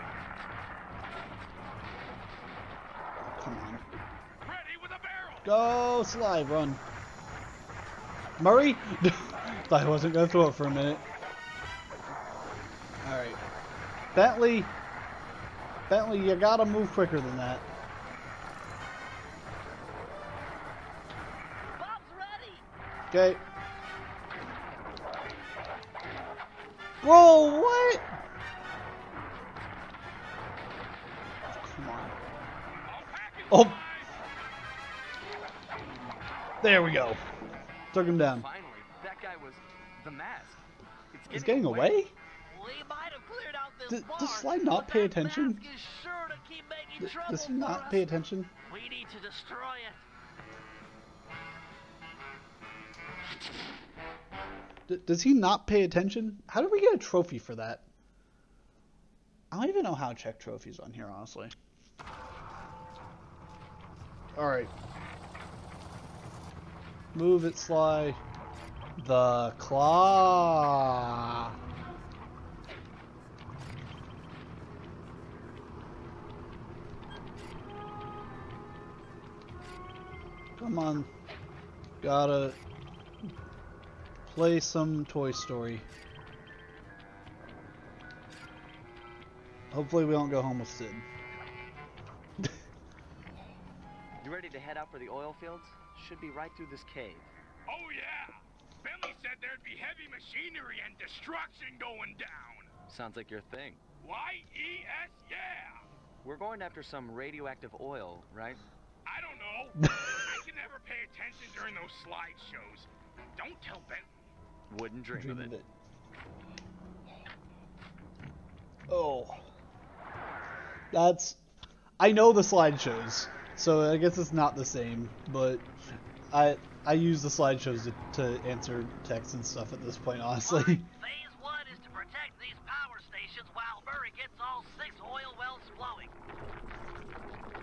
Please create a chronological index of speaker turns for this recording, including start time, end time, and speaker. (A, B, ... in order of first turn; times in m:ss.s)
0:03.3-0:03.8 A
0:04.4-0:05.5 B
0:05.4-0:06.8 A
0:08.4-0:11.0 A
0:13.0-0:13.4 A
0:14.1-0:14.7 A
0:15.9-0:17.6 A
0:21.7-0:22.6 C
0:23.1-0:23.4 A
0:27.0-0:28.0 A
0:31.5-0:32.2 A
0:32.8-0:34.2 B
0:33.5-0:33.8 A
0:36.6-0:37.2 A
0:37.9-0:38.5 A
0:38.0-0:40.6 D
0:41.1-0:42.0 D
0:41.3-0:42.1 A
0:42.5-0:50.0 C
0:43.9-0:45.6 A
0:47.0-0:48.5 A
0:54.9-0:57.8 A
0:59.5-1:01.5 A
1:04.4-1:04.7 A
1:07.1-1:08.2 A
1:09.0-1:11.5 A
1:20.6-1:21.1 A
1:22.0-1:22.6 A
1:24.3-1:25.8 A
1:29.7-1:31.0 A
1:34.2-1:37.3 D
1:37.7-1:42.7 B
1:42.9-1:43.8 D
1:44.0-1:45.8 B
1:46.2-1:48.6 D
1:49.0-1:54.2 B
1:49.8-1:50.2 A
1:54.7-1:55.5 D
1:55.1-1:55.7 A
1:58.9-1:59.4 A
2:00.9-2:01.4 A
2:02.0-2:05.7 A
2:06.3-2:10.9 A
2:10.4-2:16.1 C